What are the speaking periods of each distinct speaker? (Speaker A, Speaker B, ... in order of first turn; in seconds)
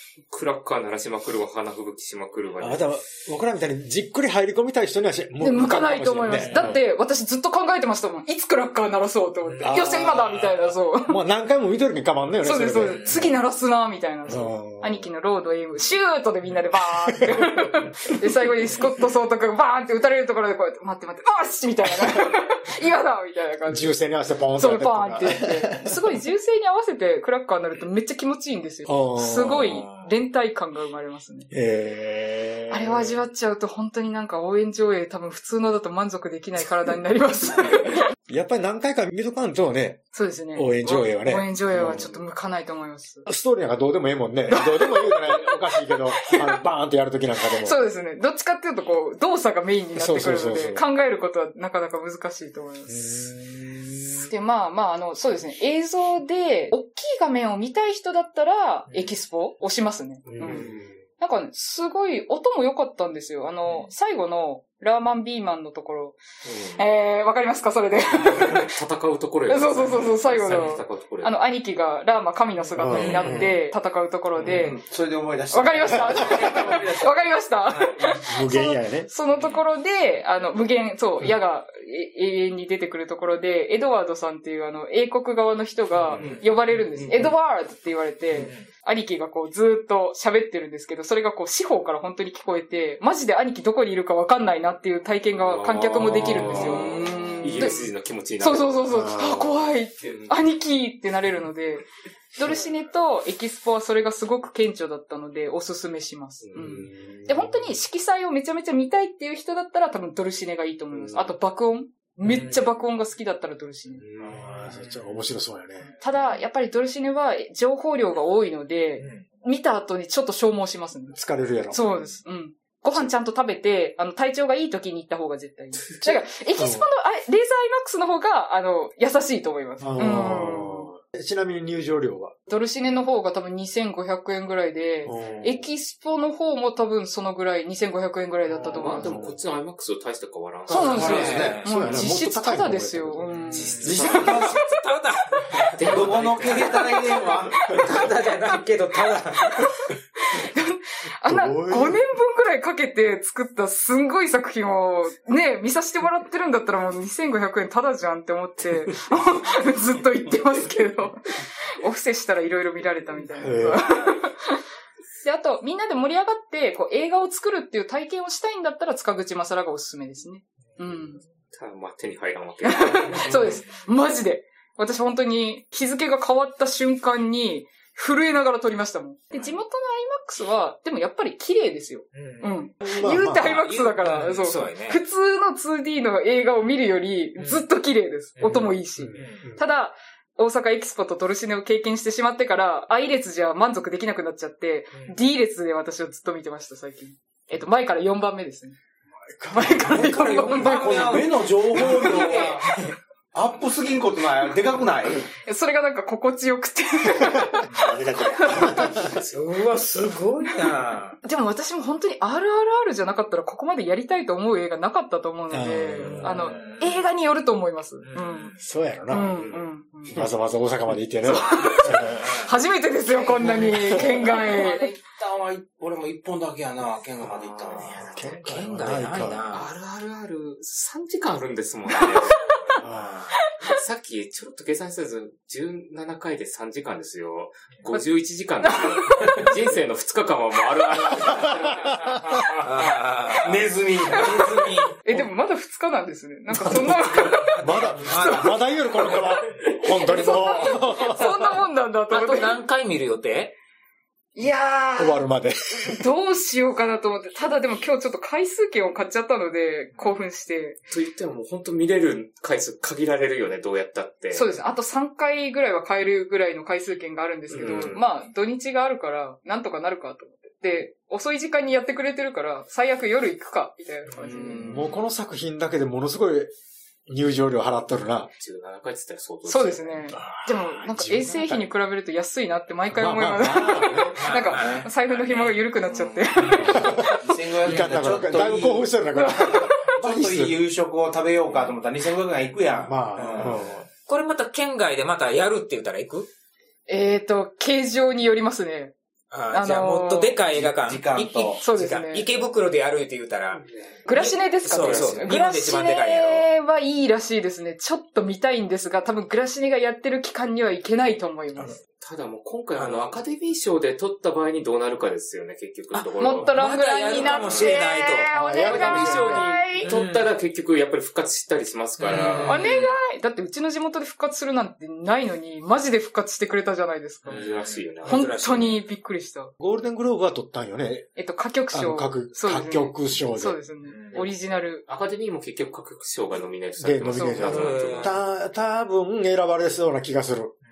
Speaker A: 0.3-3.0, 60.4-60.9, 66.5-66.8, 68.2-71.4, 95.4-98.9, 100.0-100.3, 106.4-106.8, 114.0-114.4, 138.7-141.5, 143.5-144.5, 145.7-147.0, 171.5-173.6, 208.7-209.4, 219.3-219.7, 227.3-228.4, 229.5-232.8, 233.6-243.0, 260.9-264.5, 267.5-268.0, 278.4-280.1, 303.6-304.0, 304.7-305.2, 312.0-316.6, 317.2-317.8, 318.6-322.7, 327.3-328.4, 334.9-338.2
Speaker B: 2.6-6.8, 9.6-13.3, 14.3-15.1, 17.1-17.9, 23.7-25.9, 28.9-29.9, 31.5-33.2, 38.3-40.0, 40.5-42.1, 43.2-47.8, 50.0-50.8, 52.9-54.3, 60.3-60.9, 72.8-73.6, 74.4-74.7, 78.2-79.1, 98.9-99.7, 106.6-107.7, 114.2-115.9, 121.1-121.8, 126.0-126.9, 129.8-132.3, 135.1-135.7, 138.6-139.4, 141.5-144.3, 151.2-152.0, 163.4-163.9, 182.8-183.6, 189.0-189.6, 199.3-200.3, 207.2-209.1, 215.5-216.6, 218.6-219.4, 220.1-222.4, 228.0-229.4, 232.8-233.2, 241.2-242.2, 247.6-251.5, 255.0-256.0, 274.6-276.5, 277.1-278.3, 280.1-281.6, 282.9-284.2, 286.6-290.6, 292.8-293.8, 318.3-319.5, 329.6-331.1, 331.7-333.6, 336.8-340.5
Speaker C: 5.4-11.2, 12.4-23.9, 24.6-31.5, 32.7-38.0, 40.1-43.2, 44.5-45.5, 46.1-46.6, 47.6-53.1, 54.3-60.6, 61.2-66.2, 66.7-68.7, 69.5-74.8, 75.5-114.0, 116.0-121.2, 121.7-130.9, 132.5-139.1, 140.7-144.8, 149.4-164.6, 165.2-171.2, 172.6-198.8, 199.5-201.2, 202.1-202.4, 205.4-209.1, 211.2-218.5, 219.1-220.2, 221.2-224.9, 238.6-239.3, 244.2-248.5, 249.8-252.6, 254.3-260.8, 264.3-274.6, 279.4-287.3, 289.1-289.9, 296.9-298.9, 299.5-300.4, 301.6-302.2, 304.1-311.8, 316.2-319.9, 322.4-327.4, 328.0-329.5, 331.2-334.8, 337.1-337.5
Speaker D: 6.3-6.7, 9.5-9.8, 12.9-13.3, 73.0-73.6, 86.1-86.4, 88.3-88.7, 112.2-112.7, 114.5-115.2, 119.0-119.2, 140.7-141.7, 143.7-149.7, 182.1-182.7, 183.3-185.0, 187.4-187.6, 188.4-189.4, 199.8-202.9, 209.3-211.2, 216.0-216.9, 218.0-218.6, 222.0-222.3, 223.4-224.5, 228.4-229.7, 232.8-233.3, 242.6-245.0, 246.7-249.4, 250.3-251.3, 252.1-253.5, 284.2-285.6, 286.3-286.8, 294.1-296.3, 299.3-306.5, 312.8-313.2, 315.9-318.8, 319.3-320.3, 322.0-322.9, 327.2-328.8, 333.9-334.2, 337.3-338.2
Speaker E: 74.5-77.3, 86.2-87.2, 96.5-97.1, 140.8-141.6, 143.8-144.5, 145.8-147.7, 173.2-173.5, 200.6-202.7, 203.3-205.3, 224.3-228.2, 243.3-244.7, 274.2-274.9, 284.5-284.9, 287.2-288.9, 290.0-293.7, 300.5-301.6